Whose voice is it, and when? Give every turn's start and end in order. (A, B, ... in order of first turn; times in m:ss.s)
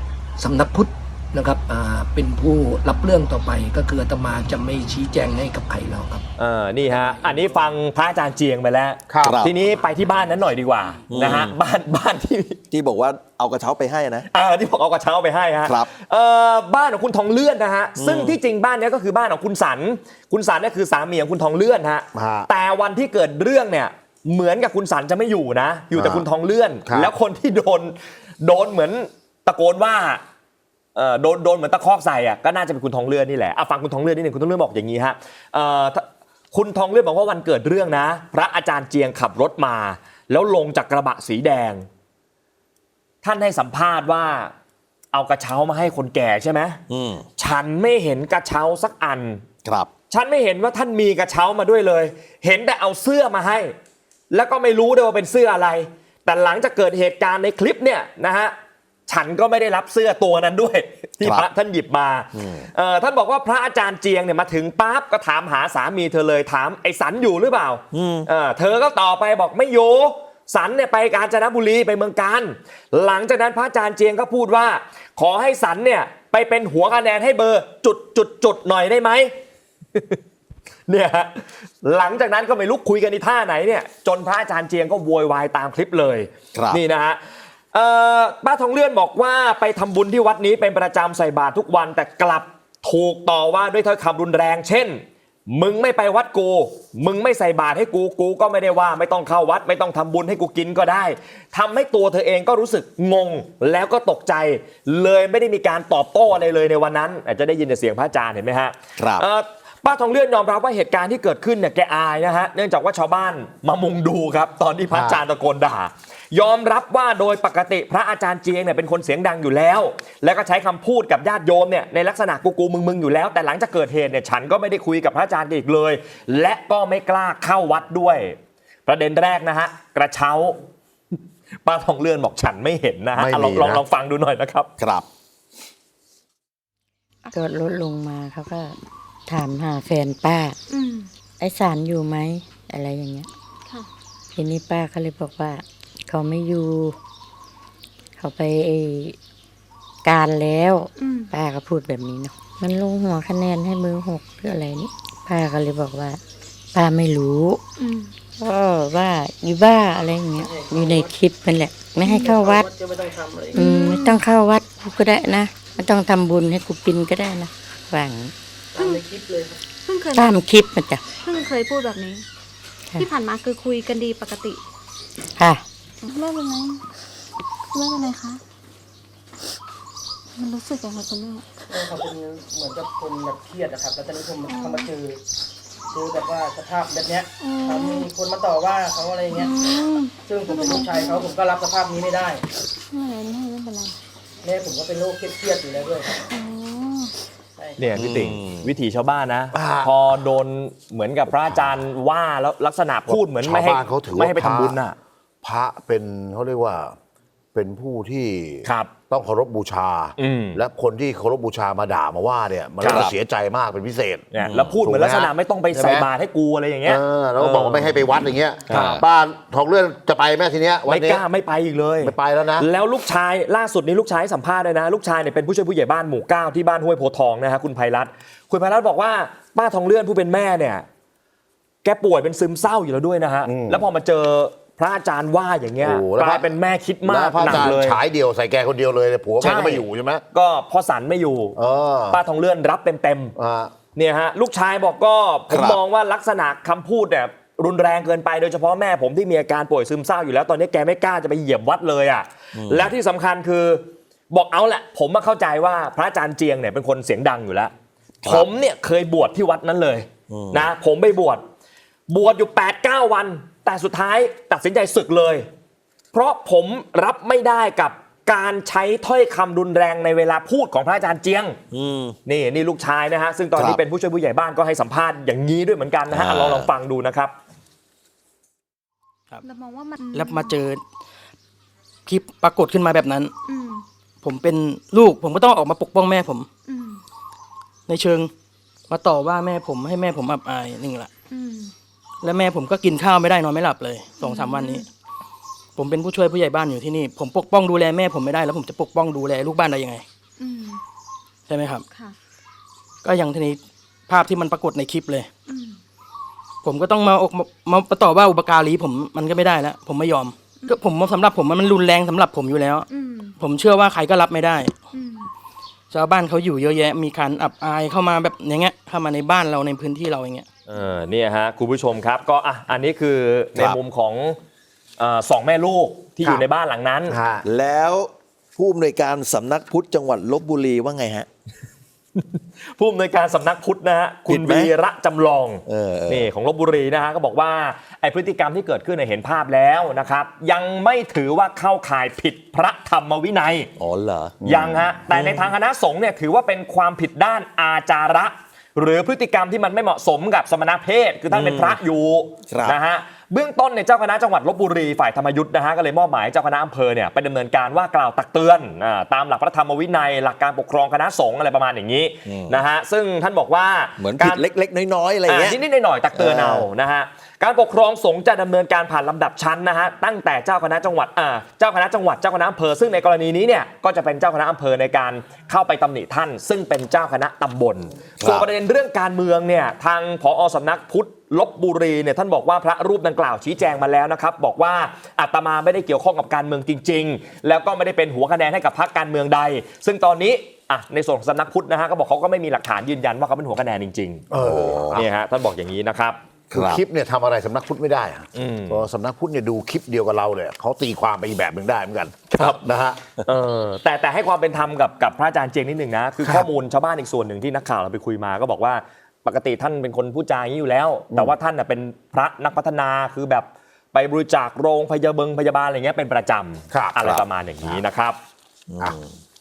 0:00.4-0:06.3 A
0:06.4-0:12.6 B
0:06.9-0:07.4 A
0:09.1-0:09.4 C
0:09.2-0:09.6 D
0:11.1-0:11.6 D
0:12.7-0:14.3 D
0:14.3-0:30.2 B
0:15.6-0:15.9 D
0:18.0-0:18.4 D
0:22.1-0:22.5 C
0:25.9-0:26.2 C
0:26.8-0:27.1 C
0:30.9-0:41.8 B
0:43.2-0:44.5 B
0:45.1-0:46.8 B
0:46.9-0:47.2 D
0:47.4-0:49.4 B
0:49.6-0:49.9 D
0:50.1-0:53.7 B
0:54.3-0:58.5 B
0:59.1-1:19.3 B
1:01.2-1:01.5 D
1:02.3-1:02.7 D
1:07.9-1:08.3 D
1:20.9-1:27.2 B
1:26.5-1:26.8 D
1:27.7-2:10.6 B
1:49.0-1:49.2 D
1:54.9-1:55.2 C
2:11.6-2:14.7 B
2:13.2-2:13.8 C
2:14.8-2:15.0 D
2:17.3-2:18.7 E
2:19.3-2:20.6 E
2:20.7-2:21.1 F
2:21.4-2:23.3 E
2:24.3-2:27.0 E
2:28.2-2:29.2 E
2:30.0-2:36.2 E
2:31.0-2:31.3 F
2:36.7-2:37.6 E
2:37.8-2:38.1 F
2:38.4-2:42.7 E
2:40.4-2:41.1 G
2:42.0-2:42.3 F
2:42.1-2:43.6 G
2:43.5-2:44.2 F
2:43.5-2:48.3 E
2:48.7-2:49.6 G
2:48.8-2:49.0 F
2:49.8-2:50.4 F
2:50.1-2:51.0 E
2:51.2-2:52.2 F
2:53.0-2:54.6 F
2:55.4-2:55.6 E
2:56.0-2:56.8 F
2:57.7-2:58.4 F
3:00.3-3:01.4 F
3:01.7-3:05.2 G
3:04.5-3:04.9 F
3:05.9-3:09.5 G
3:07.4-3:08.1 F
3:09.3-3:11.3 F
3:10.2-3:12.4 G
3:12.9-3:13.9 F
3:14.4-3:16.2 G
3:16.2-3:17.1 F
3:17.6-3:17.9 G
3:17.8-3:25.0 B
3:18.0-3:18.7 D
3:19.5-3:20.3 C
3:21.3-3:21.8 C
3:23.0-3:24.8 C
3:25.4-3:26.9 C
3:27.5-3:36.1 C
3:28.6-3:28.9 B
3:30.2-3:30.6 B
3:32.8-3:33.1 B
3:32.9-3:33.1 D
3:34.3-3:38.0 B
3:34.4-3:34.8 D
3:36.8-3:41.2 C
3:38.7-3:39.0 D
3:40.9-3:50.8 B
3:42.0-3:42.7 C
3:51.8-3:58.0 B
3:53.4-3:53.8 C
3:55.8-3:56.5 C
3:57.0-4:00.2 C
3:59.4-4:01.6 B
4:01.6-4:02.2 C
4:02.1-4:03.3 B
4:03.4-4:03.7 C
4:03.9-4:17.7 B
4:05.5-4:05.8 D
4:12.5-4:12.9 D
4:18.2-4:18.5 D
4:18.2-4:21.4 B
4:20.3-4:20.7 D
4:22.1-4:25.4 B
4:26.1-4:31.6 B
4:31.7-4:32.2 D
4:32.2-4:37.3 B
4:33.6-4:33.8 D
4:36.1-4:36.7 D
4:39.4-4:40.6 F
4:40.1-4:40.8 G
4:42.1-4:43.3 G
4:43.5-4:43.8 F
4:44.2-4:46.5 G
4:46.7-4:47.0 F
4:47.9-4:48.3 G
4:48.9-4:51.1 G
4:51.3-4:51.7 F
4:52.2-4:54.8 G
4:54.2-4:54.8 F
4:55.8-5:00.0 G
5:00.4-5:00.8 F
5:01.5-5:01.8 G
5:03.0-5:05.3 G
5:05.5-5:05.8 F
5:06.6-5:12.9 G
5:12.9-5:13.3 F
5:13.4-5:14.8 G
5:14.9-5:15.3 F
5:15.9-5:20.4 G
5:20.7-5:24.4 B
5:25.0-5:27.2 B
5:27.1-5:27.4 C
5:27.4-5:31.3 D
5:32.2-5:43.7 B
5:34.2-5:34.7 D
5:35.6-5:36.3 D
5:43.8-5:45.5 D
5:44.4-6:04.4 B
5:44.5-5:44.9 C
5:51.3-5:51.8 D
5:52.5-5:52.8 D
6:02.2-6:02.6 D
6:04.0-6:05.6 D
6:05.3-6:34.2 B
6:06.1-6:06.6 D
6:18.2-6:18.5 D
6:34.3-6:35.1 C
6:34.3-6:35.0 D
6:34.9-6:36.2 B
6:36.5-6:36.8 D
6:36.5-6:43.0 C
6:38.3-6:38.9 B
6:42.3-6:42.6 B
6:43.2-6:58.2 B
6:46.2-6:46.5 C
6:56.7-6:57.2 C
6:58.7-6:59.1 D